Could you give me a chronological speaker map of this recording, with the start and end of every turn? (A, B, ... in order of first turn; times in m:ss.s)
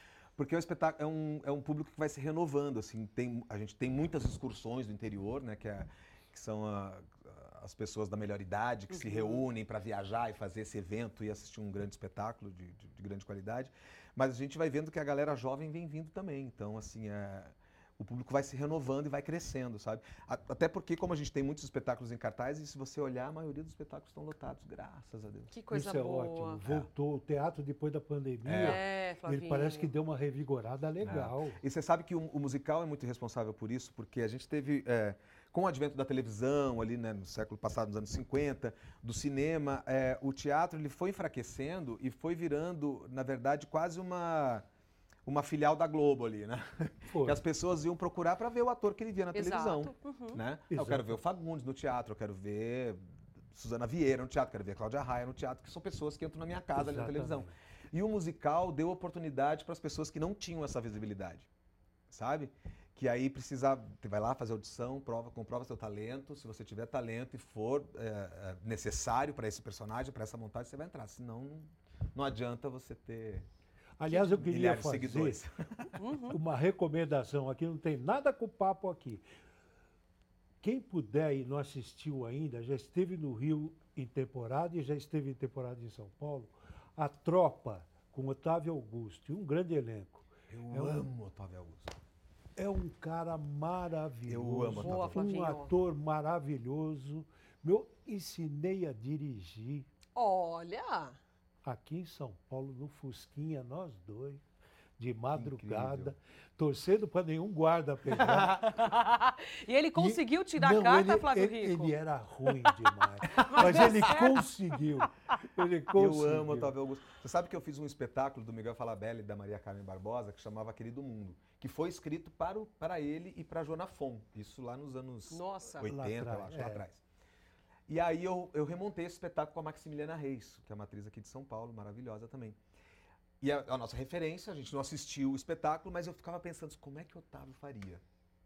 0:00.4-0:25.5 A
0:08.9-0:09.4 B
0:25.5-0:26.6 B
0:25.7-0:31.6 C
0:28.4-0:28.8 A
0:28.6-0:29.9 B
0:31.0-0:44.6 A
0:45.3-0:53.0 A
0:47.1-0:47.4 C
0:49.3-0:50.4 B
0:50.7-0:51.2 C
0:53.5-1:01.5 A
0:56.8-0:57.5 C
1:02.1-1:13.5 A
1:14.0-1:15.4 C
1:14.1-1:16.0 A
1:16.0-1:16.4 B
1:16.3-1:19.2 C
1:20.6-1:31.1 C
1:30.5-1:31.9 A
1:32.6-1:39.9 C
1:34.3-1:35.3 A
1:34.8-1:35.7 B
1:40.2-1:41.2 B
1:41.6-1:44.4 C
1:45.0-1:48.6 C
1:45.3-1:46.1 A
1:48.2-1:48.8 A
1:48.7-1:51.9 B
1:50.0-1:56.7 C
1:53.3-1:54.5 B
1:53.4-1:53.9 A
1:55.9-2:07.0 A
2:05.3-2:05.9 B
2:05.8-2:06.8 C
2:07.9-2:12.6 A
2:13.4-2:18.0 A